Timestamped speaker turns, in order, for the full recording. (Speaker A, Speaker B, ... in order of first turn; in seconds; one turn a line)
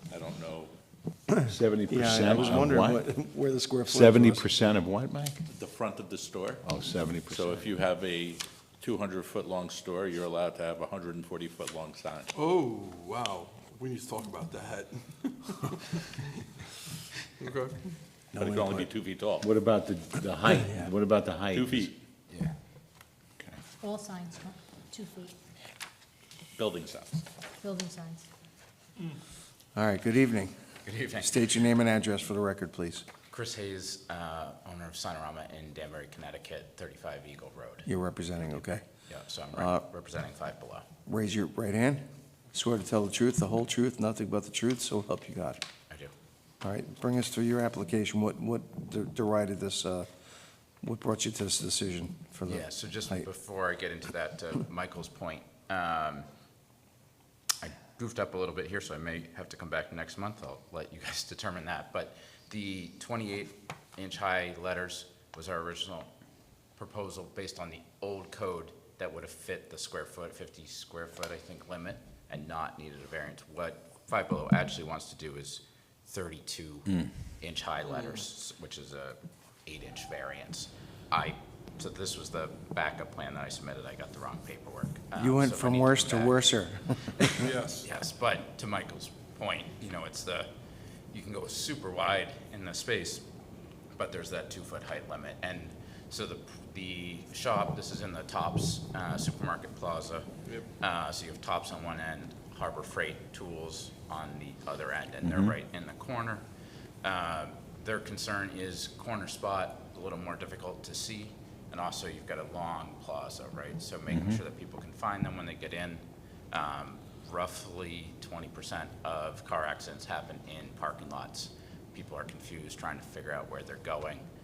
Speaker A: 0.1-0.7
Speaker B: 1.3-4.5
Speaker C: 1.5-3.0
Speaker A: 2.2-2.7
Speaker C: 3.9-5.4
Speaker A: 5.5-6.7
Speaker C: 6.6-7.6
Speaker A: 7.3-12.3
Speaker D: 12.3-16.2
Speaker D: 17.4-17.8
Speaker B: 18.3-18.9
Speaker A: 18.4-19.5
Speaker C: 19.4-21.9
Speaker B: 20.5-20.9
Speaker A: 21.5-21.9
Speaker E: 23.8-25.3
Speaker A: 26.6-27.2
Speaker E: 27.6-28.2
Speaker B: 29.8-30.5
Speaker F: 30.9-31.7
Speaker B: 31.1-33.0
Speaker F: 33.3-37.9
Speaker B: 37.9-38.8
Speaker F: 39.1-40.9
Speaker B: 39.5-39.9
Speaker B: 41.1-45.6
Speaker B: 46.6-50.1
Speaker B: 50.8-53.3
Speaker F: 52.5-56.3
Speaker F: 57.6-66.1
Speaker F: 66.8-86.5
Speaker B: 85.2-87.5
Speaker F: 87.2-90.5
Speaker D: 87.4-87.9
Speaker F: 91.1-93.2
Speaker F: 94.0-100.3
Speaker F: 100.8-106.5
Speaker C: 105.2-105.5
Speaker F: 107.0-124.3
Speaker C: 114.1-114.4